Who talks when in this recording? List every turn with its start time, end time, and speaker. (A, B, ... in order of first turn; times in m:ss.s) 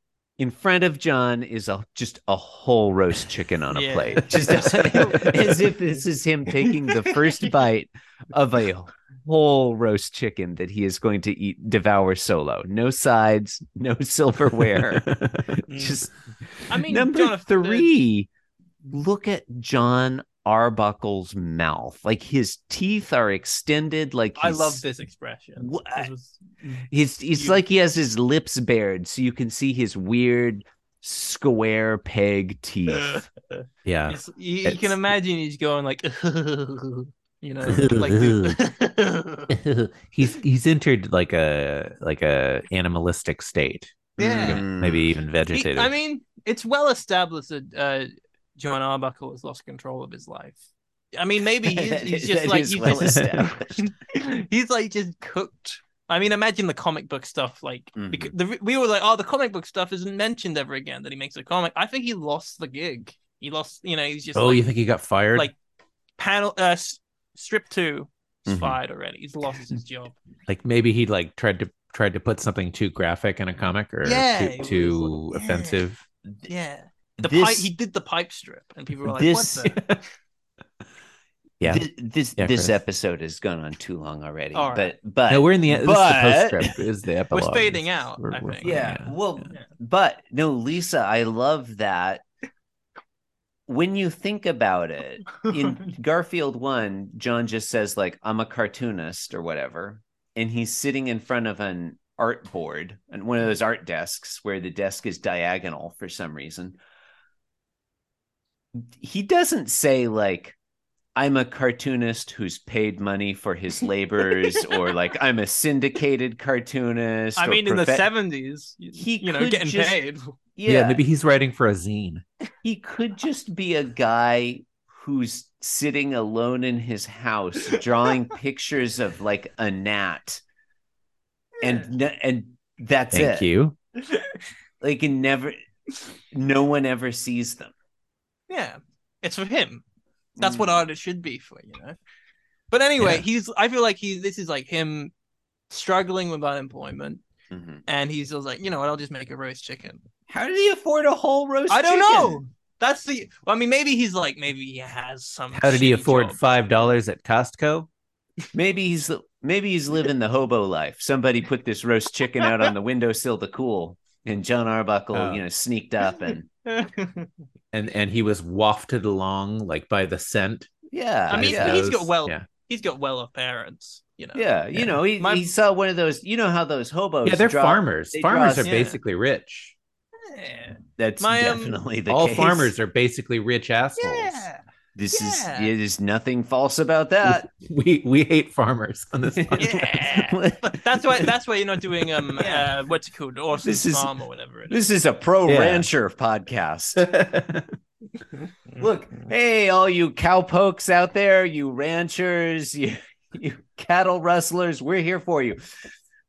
0:00.4-0:18.3 A
0:03.7-0:05.7 B
0:06.6-0:07.5 B
0:14.9-0:15.5 C
0:15.7-0:16.0 B
0:16.7-0:17.9 B
0:18.9-0:24.8 A
0:24.4-0:27.6 B
0:25.6-0:26.1 A
0:26.9-0:33.2 A
0:32.9-0:39.5 B
0:33.8-0:34.9 C
0:37.6-0:38.6 C
0:39.5-0:46.0 C
0:44.2-0:45.2 A
0:44.2-0:44.6 B
0:45.5-0:50.6 B
0:51.1-1:04.7 B
0:51.6-0:53.9 A
0:57.9-0:58.3 A
1:04.3-1:05.5 C
1:06.2-1:10.1 B
1:08.4-1:08.8 A
1:10.5-1:16.0 C
1:14.0-1:15.8 B
1:16.5-1:19.8 B
1:17.2-1:17.7 A
1:19.1-1:19.7 A
1:19.6-1:20.0 C
1:21.6-1:21.9 C
1:21.6-1:26.8 A
1:22.4-1:22.8 C
1:24.5-1:24.9 B
1:25.3-1:29.1 C
1:27.3-1:28.8 B
1:28.6-1:32.2 A
1:33.7-1:46.8 A
1:35.3-1:35.9 B
1:48.7-1:50.6 A
1:51.1-1:58.1 A
1:54.2-1:54.9 B
1:57.4-2:00.3 B
1:59.0-2:00.0 A
2:00.6-2:01.0 A
2:00.6-2:02.2 C
2:02.6-2:10.4 A
2:11.6-2:13.5 A
2:11.6-2:11.9 B
2:13.1-2:13.7 C
2:14.8-2:15.6 A
2:16.3-2:17.7 A
2:18.5-2:19.8 B
2:20.4-2:20.8 A
2:20.4-2:22.0 B
2:22.7-2:25.1 B
2:23.0-2:23.2 C
2:25.7-2:27.2 B
2:27.5-2:27.8 A
2:27.9-2:30.0 B
2:30.3-2:32.4 A
2:31.7-2:36.4 B
2:35.5-2:37.9 C
2:38.5-2:46.5 A
2:45.1-2:45.4 C
2:46.6-2:47.3 B
2:47.7-2:50.7 C
2:50.9-2:51.8 A
2:51.3-2:52.4 C
2:51.3-2:55.5 B
2:54.3-2:58.7 A
2:57.2-2:59.7 C
2:58.6-2:59.0 B
3:00.2-3:01.7 B
3:01.0-3:02.7 A
3:02.1-3:04.5 C
3:04.0-3:05.7 B
3:04.9-3:07.5 A
3:07.2-3:09.7 C
3:09.4-3:11.3 A
3:09.6-3:14.8 B
3:12.3-3:12.7 A
3:13.6-3:14.1 A
3:14.7-3:17.0 A
3:15.5-3:15.9 C
3:17.0-3:17.7 C
3:18.3-3:18.8 B
3:18.8-3:25.6 A